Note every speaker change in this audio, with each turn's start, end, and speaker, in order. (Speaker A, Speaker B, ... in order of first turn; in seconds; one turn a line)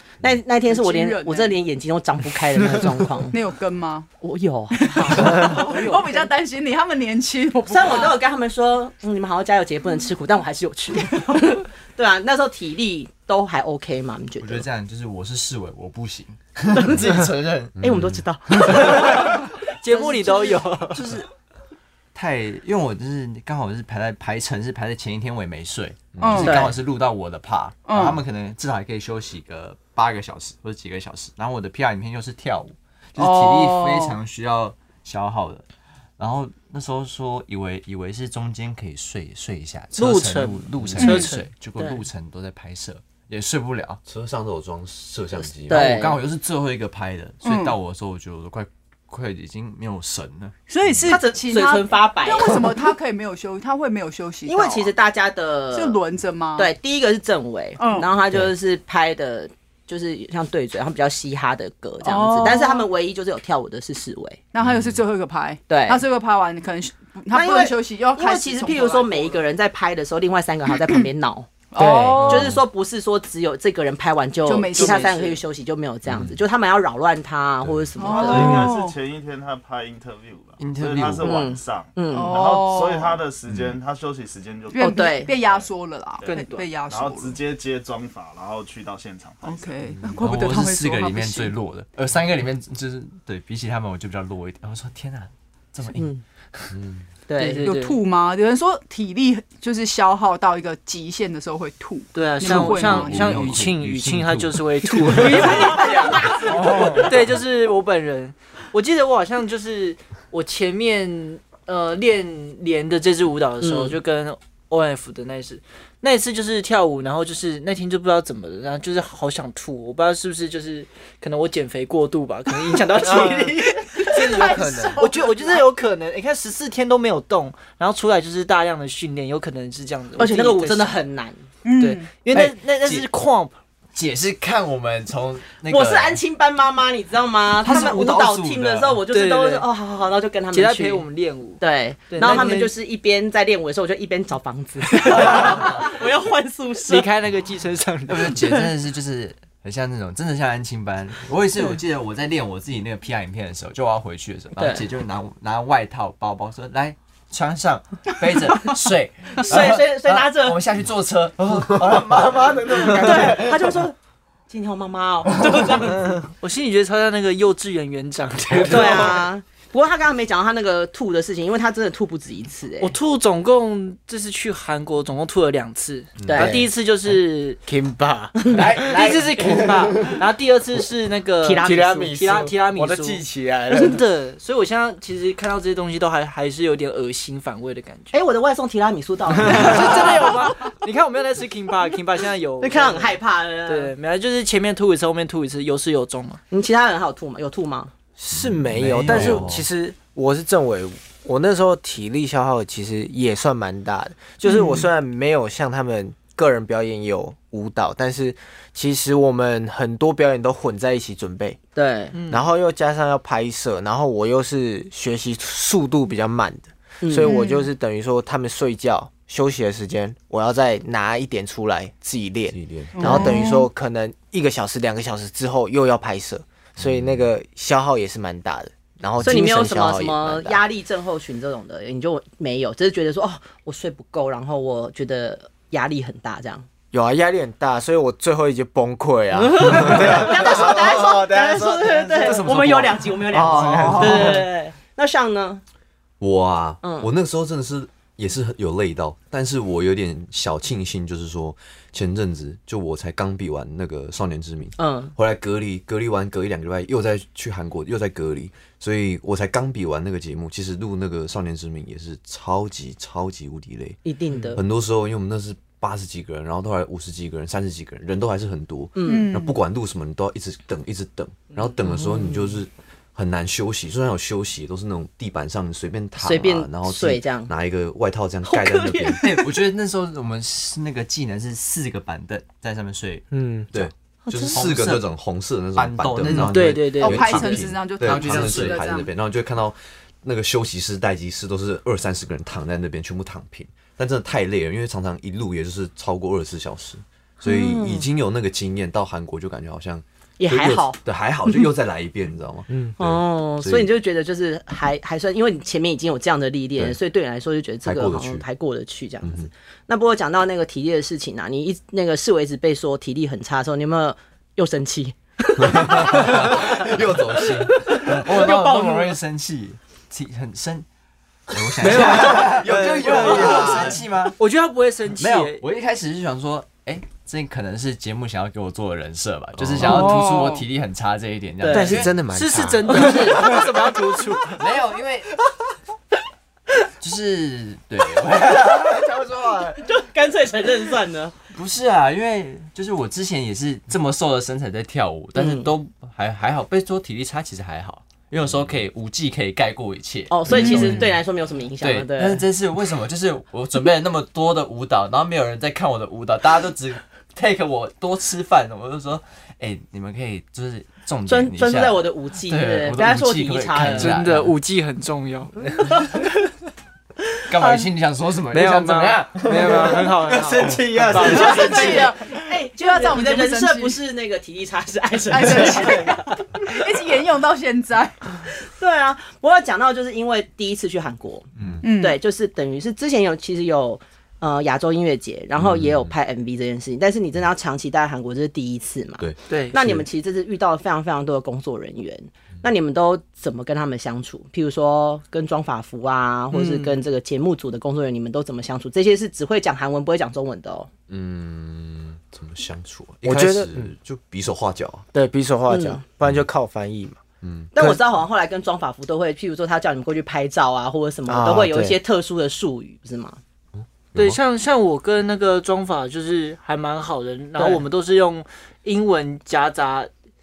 Speaker A: 0.2-3.4
Speaker B: 0.6-1.6
Speaker B: 3.3-4.1
Speaker A: 4.2-6.3
Speaker B: 4.7-8.2
Speaker A: 7.7-14.7
Speaker C: 14.4-17.8
Speaker A: 16.8-17.1
Speaker D: 17.8-18.2
Speaker A: 17.8-20.6
Speaker C: 18.6-19.4
Speaker E: 18.6-21.2
Speaker C: 20.9-21.3
Speaker C: 22.1-35.6
Speaker D: 26.1-26.5
Speaker B: 26.2-26.7
Speaker A: 26.4-26.8
Speaker B: 27.8-28.2
Speaker B: 33.1-34.2
Speaker C: 36.2-44.0
Speaker E: 40.0-41.4
Speaker D: 40.8-41.0
Speaker B: 41.0-41.4
Speaker A: 41.8-42.0
Speaker D: 44.0-46.0
Speaker A: 45.7-46.2
Speaker C: 45.7-50.5
Speaker B: 47.4-47.8
Speaker B: 50.7-54.9
Speaker A: 51.0-52.9
Speaker A: 54.5-56.0
Speaker B: 55.7-56.7
Speaker A: 56.5-64.4
Speaker B: 57.8-58.1
Speaker B: 62.0-62.9
Speaker B: 64.5-69.4
Speaker D: 64.6-64.9
Speaker A: 65.7-66.0
Speaker A: 67.3-71.5
Speaker B: 70.8-71.1
Speaker B: 71.7-72.5
Speaker F: 71.8-72.4
Speaker A: 72.2-78.7
Speaker B: 74.4-75.3
Speaker E: 74.7-75.4
Speaker D: 76.0-76.4
Speaker D: 77.6-77.9
Speaker B: 78.0-79.0
Speaker G: 78.0-85.7
Speaker F: 78.3-78.7
Speaker C: 80.6-81.5
Speaker A: 81.2-82.4
Speaker B: 82.1-83.2
Speaker D: 83.5-83.7
Speaker B: 84.7-87.4
Speaker A: 84.8-85.3
Speaker G: 86.2-89.9
Speaker E: 86.2-86.7
Speaker B: 89.4-91.5
Speaker C: 90.2-96.7
Speaker A: 95.9-96.2
Speaker D: 96.7-97.0
Speaker A: 97.3-97.7
Speaker E: 97.4-98.0
Speaker B: 97.6-103.4
Speaker E: 102.1-130.9
Speaker D: 102.5-105.3
Speaker B: 105.2-106.6
Speaker A: 105.4-106.8
Speaker C: 106.5-107.1
Speaker A: 113.6-114.0
Speaker F: 123.0-125.0
Speaker B: 124.0-125.6
Speaker A: 130.2-131.4
Speaker B: 131.6-132.1
Speaker E: 131.8-133.5
Speaker C: 132.3-133.1
Speaker C: 133.9-136.2
Speaker A: 135.7-141.1
Speaker C: 137.6-139.0
Speaker E: 139.1-139.7
Speaker E: 140.5-142.7
Speaker A: 141.6-147.1
Speaker C: 142.3-142.5
Speaker E: 144.9-145.8
Speaker E: 146.8-148.6
Speaker C: 148.1-163.6
Speaker A: 154.6-154.8
Speaker A: 159.4-160.6
Speaker F: 161.9-163.5
Speaker A: 162.9-163.9
Speaker A: 164.5-166.2
Speaker E: 166.4-169.2
Speaker A: 168.6-172.9
Speaker E: 172.8-177.6
Speaker D: 176.2-176.4
Speaker A: 176.3-176.6
Speaker F: 176.3-176.7
Speaker F: 177.7-180.1
Speaker C: 178.5-179.7
Speaker E: 178.8-188.2
Speaker A: 181.4-182.1
Speaker F: 181.6-184.0
Speaker A: 188.1-190.4
Speaker E: 189.4-196.4
Speaker A: 192.6-193.9
Speaker A: 196.5-197.9
Speaker F: 198.2-211.6
Speaker D: 198.3-199.7
Speaker C: 198.7-199.6
Speaker B: 204.4-204.9
Speaker A: 211.8-212.1
Speaker E: 212.1-212.4
Speaker F: 212.3-230.6
Speaker A: 217.0-217.3
Speaker B: 217.2-217.7
Speaker D: 222.5-223.3
Speaker B: 222.9-223.7
Speaker D: 226.8-227.3
Speaker A: 229.2-236.7
Speaker F: 236.9-244.5
Speaker A: 239.3-245.6
Speaker C: 242.1-244.3
Speaker D: 246.2-264.0
Speaker A: 246.8-247.1
Speaker A: 254.8-255.1
Speaker A: 264.0-264.6
Speaker D: 264.5-279.3
Speaker A: 268.9-269.3
Speaker B: 269.0-269.6
Speaker A: 271.5-272.6
Speaker A: 276.2-277.5
Speaker A: 278.5-279.5
Speaker C: 279.2-285.1
Speaker F: 283.3-283.7
Speaker D: 283.7-303.9
Speaker A: 284.3-284.6
Speaker C: 285.8-289.0
Speaker E: 286.3-287.4
Speaker B: 287.0-289.1
Speaker A: 297.4-298.1
Speaker A: 300.4-301.7
Speaker F: 302.7-302.9
Speaker A: 303.0-319.2
Speaker D: 307.8-308.4
Speaker D: 309.2-309.5
Speaker D: 315.6-318.2
Speaker C: 317.9-320.9
Speaker C: 321.5-324.4
Speaker D: 321.6-324.0
Speaker F: 321.8-323.6
Speaker E: 324.4-325.6
Speaker C: 325.1-332.2
Speaker D: 329.6-330.0
Speaker F: 329.8-330.1
Speaker B: 329.8-330.6
Speaker A: 331.6-332.0
Speaker F: 331.6-333.5
Speaker E: 332.2-334.6
Speaker A: 332.9-333.6
Speaker C: 334.5-335.3
Speaker C: 337.0-339.7
Speaker F: 338.7-339.8
Speaker A: 339.8-341.3
Speaker C: 341.5-351.2
Speaker A: 345.4-345.7
Speaker A: 350.3-352.4
Speaker C: 351.8-364.5
Speaker A: 361.3-364.1
Speaker E: 363.9-366.1
Speaker C: 367.5-370.0
Speaker A: 367.5-367.9
Speaker F: 368.5-372.1
Speaker E: 368.6-370.8
Speaker A: 371.1-376.8
Speaker B: 371.2-374.0
Speaker B: 375.3-378.2
Speaker A: 378.7-400.9
Speaker D: 381.6-381.8
Speaker B: 381.8-382.2
Speaker D: 385.6-386.1
Speaker D: 389.2-390.1
Speaker E: 389.5-389.8
Speaker E: 396.5-397.0
Speaker D: 401.1-405.1
Speaker F: 403.2-403.9
Speaker F: 405.1-407.2
Speaker A: 405.7-406.0
Speaker D: 407.4-407.7
Speaker A: 407.7-413.4
Speaker F: 407.7-408.0
Speaker F: 411.3-412.0
Speaker D: 413.8-414.4
Speaker E: 414.1-420.1
Speaker A: 417.6-417.8